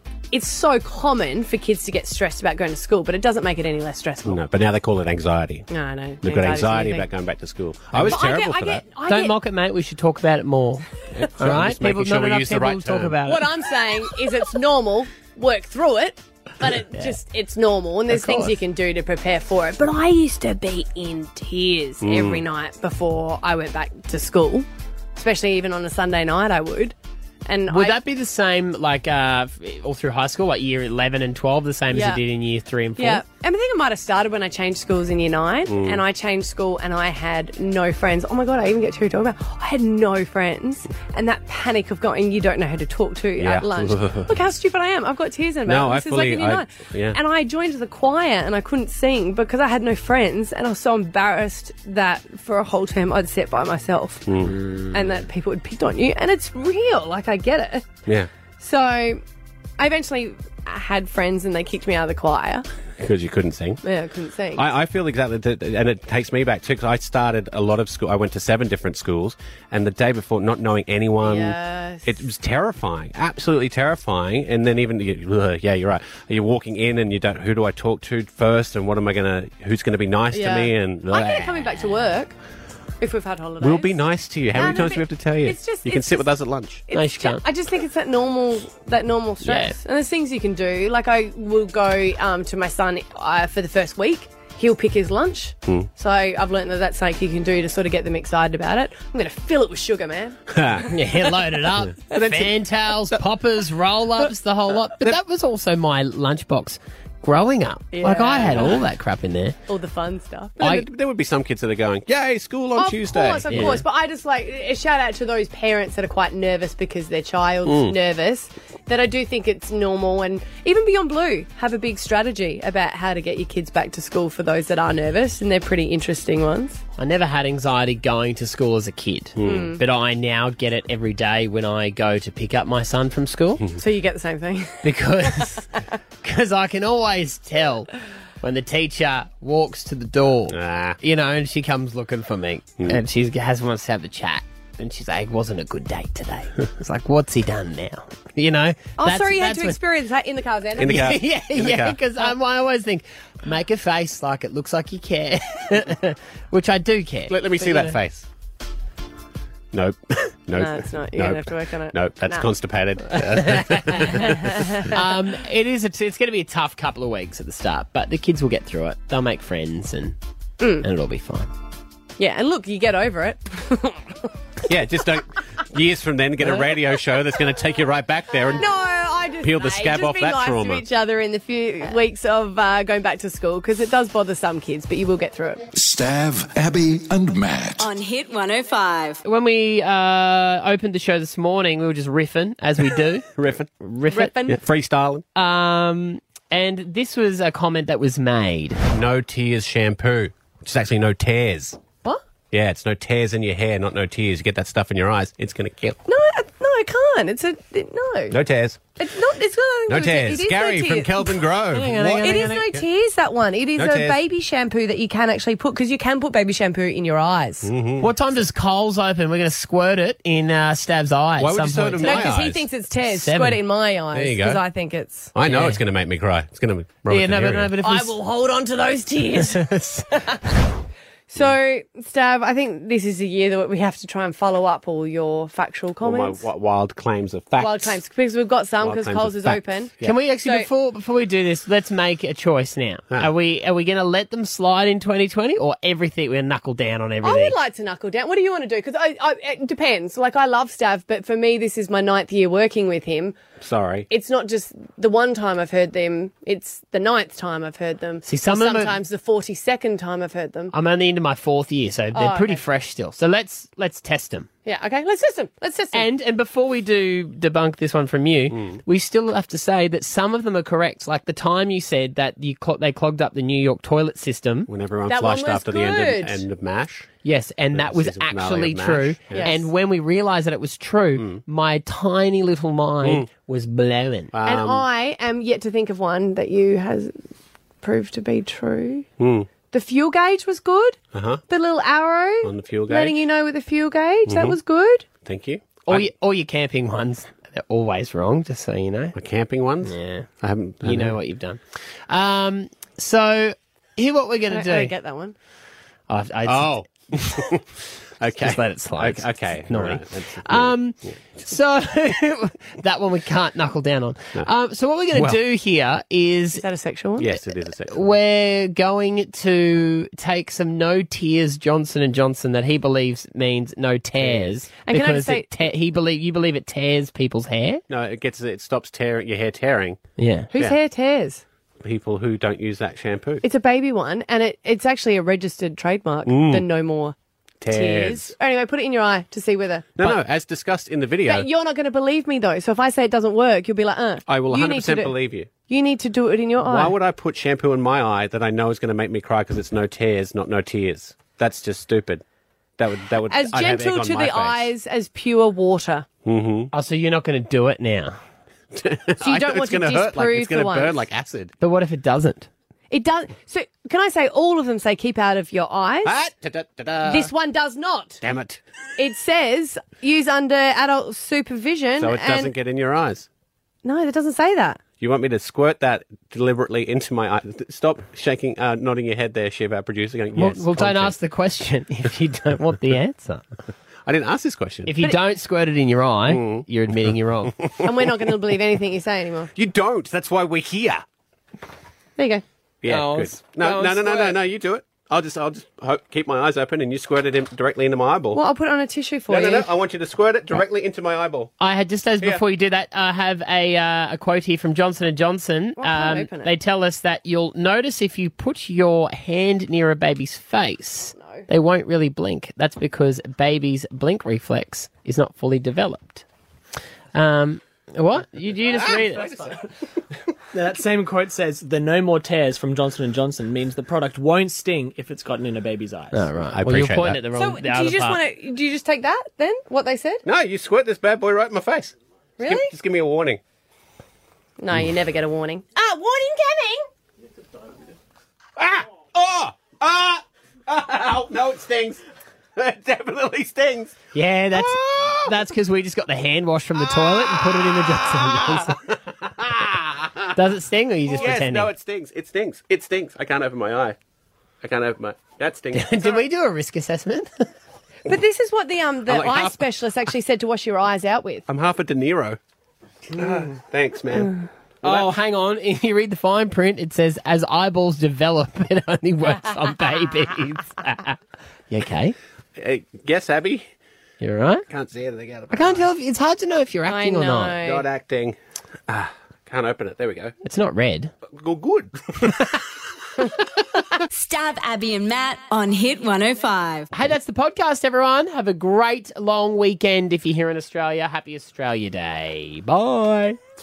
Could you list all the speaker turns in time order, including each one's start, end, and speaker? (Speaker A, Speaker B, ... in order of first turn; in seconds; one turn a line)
Speaker A: 0.3-4.4
Speaker B: 4.2-5.7
Speaker A: 5.7-7.1
Speaker B: 6.2-8.8
Speaker A: 8.0-9.3
Speaker C: 9.1-10.8
Speaker B: 11.1-13.2
Speaker C: 11.4-13.5
Speaker A: 13.2-26.9
Speaker C: 18.1-18.6
Speaker B: 22.0-22.4
Speaker A: 27.5-28.0
Speaker C: 27.7-33.2
Speaker A: 31.9-32.2
Speaker A: 33.0-54.3
Speaker B: 35.7-36.0
Speaker B: 43.4-44.3
Speaker B: 45.7-47.2
Speaker B: 54.3-54.5
Speaker C: 54.4-55.2
Speaker A: 54.9-57.9
Speaker A: 58.6-59.2
Speaker A: 59.8-62.6
Speaker B: 63.0-63.8
Speaker A: 63.8-64.7
Speaker B: 64.5-81.6
Speaker A: 71.2-72.1
Speaker A: 80.3-82.3
Speaker A: 83.0-86.3
Speaker B: 83.6-86.8
Speaker A: 86.9-100.8
Speaker C: 86.9-87.4
Speaker C: 89.4-89.8
Speaker B: 100.5-100.8
Speaker C: 100.9-109.6
Speaker B: 102.0-102.6
Speaker A: 107.9-108.8
Speaker A: 109.7-110.7
Speaker B: 110.6-113.8
Speaker A: 112.8-126.8
Speaker C: 113.5-113.8
Speaker B: 117.6-118.0
Speaker C: 127.0-133.7
Speaker B: 129.4-129.7
Speaker A: 129.4-129.8
Speaker A: 133.8-135.5
Speaker C: 134.8-135.7
Speaker C: 136.2-137.9
Speaker C: 138.4-149.8
Speaker B: 140.5-141.0
Speaker A: 149.0-151.1
Speaker B: 150.8-152.0
Speaker C: 150.8-157.9
Speaker B: 157.3-158.3
Speaker B: 159.7-164.4
Speaker A: 160.6-162.5
Speaker C: 163.1-164.3
Speaker A: 164.3-164.9
Speaker C: 164.9-170.2
Speaker A: 170.6-170.8
Speaker C: 170.8-171.5
Speaker A: 172.2-174.2
Speaker B: 174.7-178.7
Speaker A: 178.5-185.6
Speaker B: 179.4-180.8
Speaker D: 185.7-187.9
Speaker E: 187.8-189.2
Speaker C: 189.2-193.3
Speaker B: 193.4-193.7
Speaker C: 193.8-194.3
Speaker A: 194.1-194.6
Speaker B: 194.4-195.2
Speaker C: 195.3-198.8
Speaker B: 198.9-201.8
Speaker B: 202.5-206.0
Speaker A: 206.1-208.4
Speaker B: 208.3-208.9
Speaker A: 209.0-211.4
Speaker B: 209.9-212.8
Speaker C: 211.7-212.7
Speaker A: 212.1-217.7
Speaker B: 213.8-214.2
Speaker B: 217.6-218.1
Speaker C: 218.0-222.4
Speaker B: 221.4-222.6
Speaker A: 222.0-225.3
Speaker C: 223.0-223.6
Speaker B: 224.1-224.6
Speaker B: 225.3-227.7
Speaker C: 225.4-225.8
Speaker C: 227.1-228.2
Speaker A: 227.8-229.7
Speaker C: 229.4-230.1
Speaker A: 231.3-236.5
Speaker B: 236.0-238.0
Speaker A: 237.6-239.9
Speaker B: 238.8-240.1
Speaker C: 240.0-247.6
Speaker A: 240.4-240.7
Speaker A: 247.2-253.4
Speaker B: 253.6-254.1
Speaker A: 254.1-260.7
Speaker C: 258.2-259.0
Speaker C: 260.7-264.5
Speaker A: 262.1-262.6
Speaker A: 264.6-266.1
Speaker C: 265.9-274.7
Speaker B: 268.5-268.8
Speaker B: 274.7-277.1
Speaker A: 275.1-276.4
Speaker C: 277.2-284.3
Speaker B: 277.7-279.5
Speaker A: 279.3-279.7
Speaker B: 281.2-281.4
Speaker B: 283.0-283.3
Speaker B: 284.3-284.8
Speaker A: 284.4-287.1
Speaker A: 287.8-289.1
Speaker B: 289.2-289.5
Speaker A: 289.7-295.1
Speaker B: 291.1-291.4
Speaker B: 292.4-293.2
Speaker B: 294.3-294.6
Speaker B: 295.2-296.1
Speaker C: 295.9-299.1
Speaker B: 299.1-301.1
Speaker C: 299.8-300.3
Speaker C: 300.8-304.9
Speaker A: 304.5-305.3
Speaker C: 306.1-307.4
Speaker B: 306.4-307.6
Speaker B: 308.2-311.2
Speaker C: 308.4-316.6
Speaker B: 315.1-315.4
Speaker A: 316.5-317.4
Speaker B: 317.2-318.1
Speaker C: 317.9-327.8
Speaker B: 324.2-324.5
Speaker A: 324.8-325.7
Speaker B: 327.9-330.0
Speaker C: 330.2-330.5
Speaker A: 330.5-331.4
Speaker B: 331.8-333.4
Speaker A: 333.4-337.1
Speaker B: 336.2-336.6
Speaker B: 337.6-338.3
Speaker A: 337.7-340.2
Speaker B: 340.0-341.5
Speaker A: 341.3-347.0
Speaker B: 344.3-345.5
Speaker B: 346.6-352.2
Speaker B: 352.8-354.7
Speaker A: 353.3-356.1
Speaker B: 356.2-356.7
Speaker C: 356.7-358.1
Speaker B: 358.7-361.5
Speaker A: 359.2-361.0
Speaker C: 361.6-362.5
Speaker A: 362.9-366.2
Speaker B: 366.0-367.3
Speaker A: 367.0-368.2
Speaker B: 368.2-368.6
Speaker A: 369.0-372.5
Speaker B: 372.0-373.3
Speaker A: 373.8-374.8
Speaker B: 375.0-381.1
Speaker C: 380.4-383.4
Speaker B: 384.1-384.9
Speaker C: 384.9-387.6
Speaker B: 386.3-387.9
Speaker A: 387.8-389.5
Speaker B: 389.5-391.0
Speaker A: 392.2-392.4
Speaker B: 392.8-398.4
Speaker C: 392.9-394.4
Speaker A: 398.3-399.7
Speaker B: 399.3-401.5
Speaker C: 401.6-416.2
Speaker A: 405.8-406.5
Speaker A: 411.1-411.4
Speaker C: 417.1-419.5
Speaker B: 418.7-419.6
Speaker F: 420.5-426.3
Speaker C: 426.1-428.2
Speaker B: 426.5-427.2
Speaker A: 427.3-430.2
Speaker B: 430.2-433.4
Speaker A: 432.4-432.7
Speaker A: 434.6-436.9
Speaker B: 438.6-442.0
Speaker B: 442.6-444.0
Speaker C: 444.1-448.8
Speaker B: 444.5-445.4
Speaker B: 448.1-450.3
Speaker C: 450.3-451.7
Speaker B: 451.1-454.0
Speaker B: 454.6-456.2
Speaker C: 455.7-457.4
Speaker A: 458.1-461.4
Speaker B: 459.1-459.7
Speaker B: 461.5-462.4
Speaker B: 463.1-464.3
Speaker B: 464.8-465.1
Speaker C: 464.8-471.2
Speaker C: 471.7-472.1
Speaker B: 472.6-473.7
Speaker C: 474.2-474.6
Speaker B: 474.7-475.9
Speaker C: 475.5-477.6
Speaker A: 476.9-477.9
Speaker B: 477.6-480.3
Speaker C: 480.4-481.1
Speaker B: 481.2-482.4
Speaker E: 484.1-486.9
Speaker C: 486.9-493.4